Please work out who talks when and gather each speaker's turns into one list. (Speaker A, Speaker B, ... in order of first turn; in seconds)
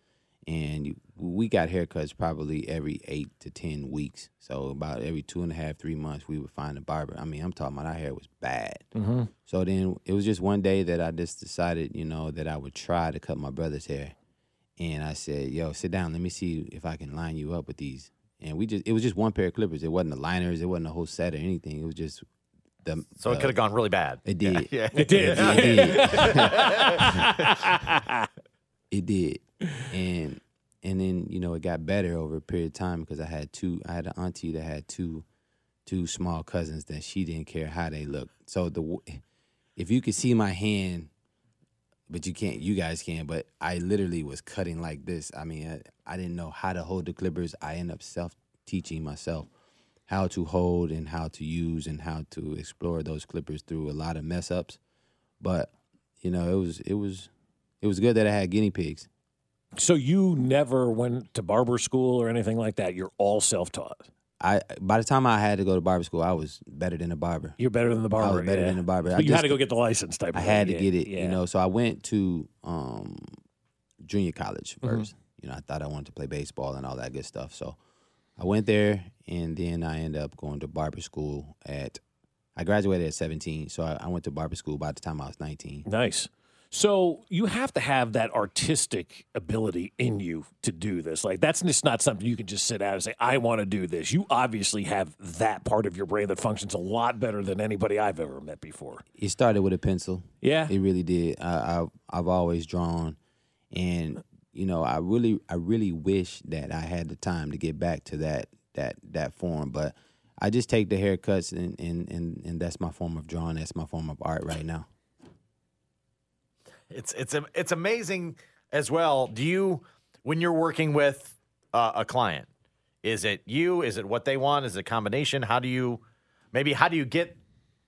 Speaker A: 0.5-8.9, 9.4-14.1, 14.8-22.2, 22.8-23.6, 24.2-27.3, 28.9-35.2, 35.9-39.2, 39.8-41.1, 42.1-49.5, 50.1-54.8, 55.4-57.3, 57.8-59.1, 64.4-67.6, 68.2-69.6, 70.3-73.3, 74.0-77.8, 78.4-82.0, 82.5-85.9, 99.2-103.2, 103.7-114.9
Speaker B: 8.9-9.3, 24.9-28.2, 59.8-64.1, 67.6-71.4, 74.8-75.1, 85.8-99.0, 100.4-100.8
Speaker C: 23.2-27.2, 116.9-122.5, 123.0-126.0, 126.5-127.4